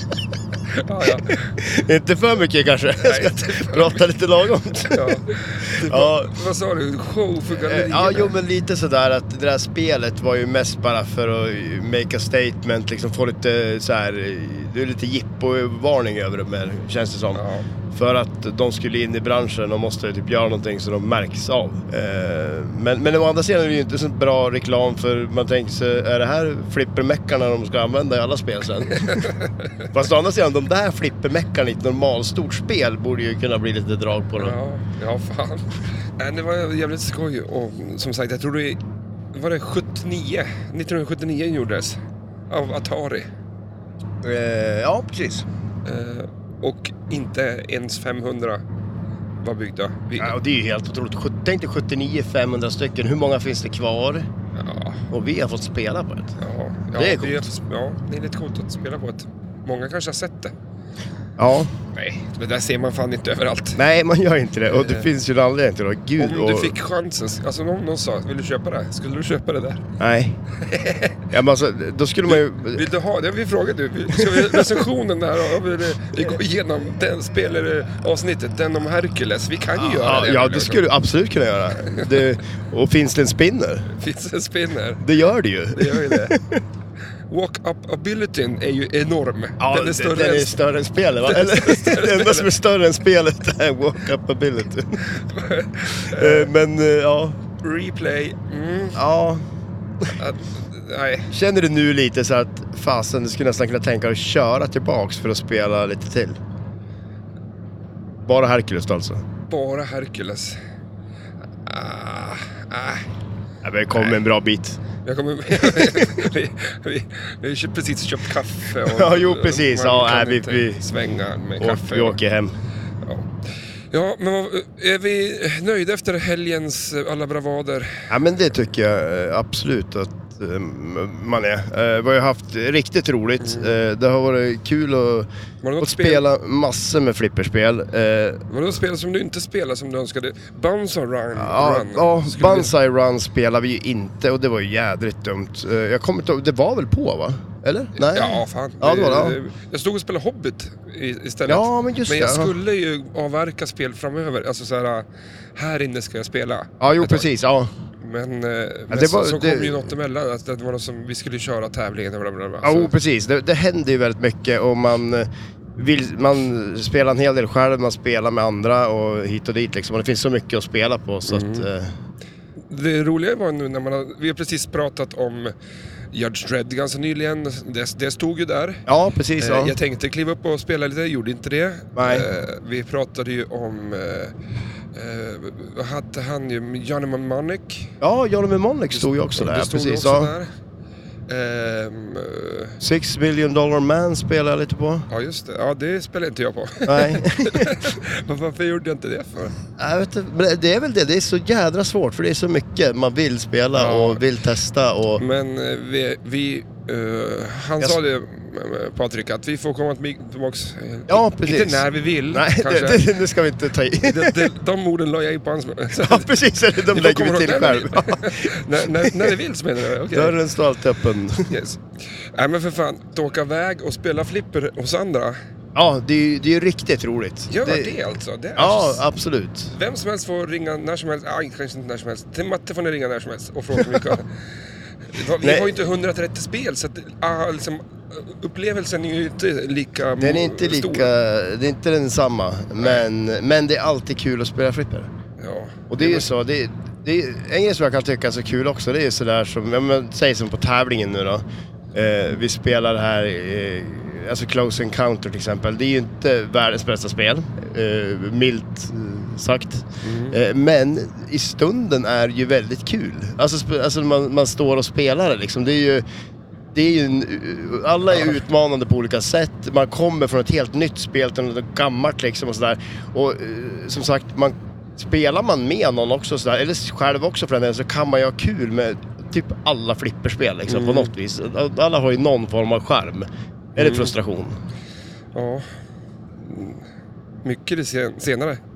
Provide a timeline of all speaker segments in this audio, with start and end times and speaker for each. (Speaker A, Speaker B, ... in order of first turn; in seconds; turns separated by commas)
Speaker A: 0.8-1.5, Speaker B: 1.6-5.2, Speaker A: 3.0-4.0, Speaker A: 4.9-8.3, Speaker B: 5.8-6.3, Speaker B: 7.6-29.3, Speaker A: 17.3-17.7, Speaker A: 28.9-29.8, Speaker B: 29.9-34.6, Speaker A: 34.4-38.8, Speaker A: 39.3-42.0, Speaker A: 42.5-43.3, Speaker B: 44.2-45.5, Speaker A: 45.9-48.6, Speaker A: 49.4-50.4, Speaker B: 50.2-54.3, Speaker A: 54.5-55.1, Speaker B: 55.1-56.4, Speaker A: 56.4-60.5, Speaker B: 57.0-57.5, Speaker B: 61.4-61.7, Speaker A: 61.9-63.8, Speaker B: 63.8-66.7, Speaker A: 64.7-65.1, Speaker A: 66.2-69.8, Speaker B: 70.0-70.4, Speaker A: 70.6-71.3, Speaker B: 71.3-72.8, Speaker A: 72.3-80.8, Speaker B: 74.1-74.8, Speaker B: 79.8-83.9, Speaker A: 81.9-82.2, Speaker A: 84.0-85.0, Speaker B: 85.0-86.6, Speaker A: 85.7-86.4, Speaker A: 87.3-90.6, Speaker B: 89.6-95.2, Speaker A: 91.2-92.5, Speaker A: 95.1-96.5, Speaker B: 96.0-97.4, Speaker A: 97.6-99.0, Speaker B: 99.0-99.4, Speaker A: 100.1-101.3, Speaker B: 101.3-106.4, Speaker B: 108.2-109.2, Speaker A: 109.5-110.6, Speaker A: 111.6-113.1, Speaker B: 113.6-114.8, Speaker A: 115.0-122.2, Speaker B: 115.5-116.3, Speaker B: 118.8-120.9, Speaker B: 121.6-122.6, Speaker A: 123.0-123.3, Speaker A: 123.9-128.1, Speaker B: 128.1-135.3, Speaker A: 133.4-133.8, Speaker A: 135.6-136.2, Speaker B: 135.8-138.4, Speaker A: 138.5-142.7, Speaker B: 141.4-149.4, Speaker A: 148.0-157.3, Speaker B: 151.5-152.6, Speaker B: 156.8-157.7, Speaker A: 158.0-162.9, Speaker B: 158.9-159.9, Speaker B: 162.6-172.0, Speaker A: 171.3-171.7, Speaker A: 172.6-175.6, Speaker A: 176.1-178.8, Speaker B: 178.9-179.8, Speaker A: 179.4-184.3, Speaker B: 182.0-182.3, Speaker A: 184.9-188.0, Speaker B: 188.0-190.3, Speaker A: 188.9-190.5, Speaker A: 191.3-192.8, Speaker B: 192.8-195.1, Speaker A: 195.1-199.6, Speaker B: 196.9-198.0, Speaker B: 199.8-205.2, Speaker A: 203.7-204.2, Speaker A: 205.2-213.1, Speaker B: 211.1-214.5, Speaker A: 214.0-216.3, Speaker B: 216.0-219.4, Speaker A: 216.8-220.4, Speaker B: 220.1-221.5, Speaker A: 221.5-225.4, Speaker B: 225.8-228.0, Speaker A: 227.5-229.1, Speaker B: 228.6-229.7, Speaker A: 229.7-234.4, Speaker A: 235.1-241.1, Speaker B: 235.4-235.8, Speaker B: 240.2-245.1, Speaker A: 242.8-243.0, Speaker A: 245.4-246.3, Speaker B: 245.9-266.0, Speaker A: 260.0-260.4, Speaker B: 266.7-284.6, Speaker A: 280.7-281.1, Speaker A: 283.8-284.2, Speaker A: 285.3-285.7, Speaker A: 286.4-286.9, Speaker A: 287.4-288.6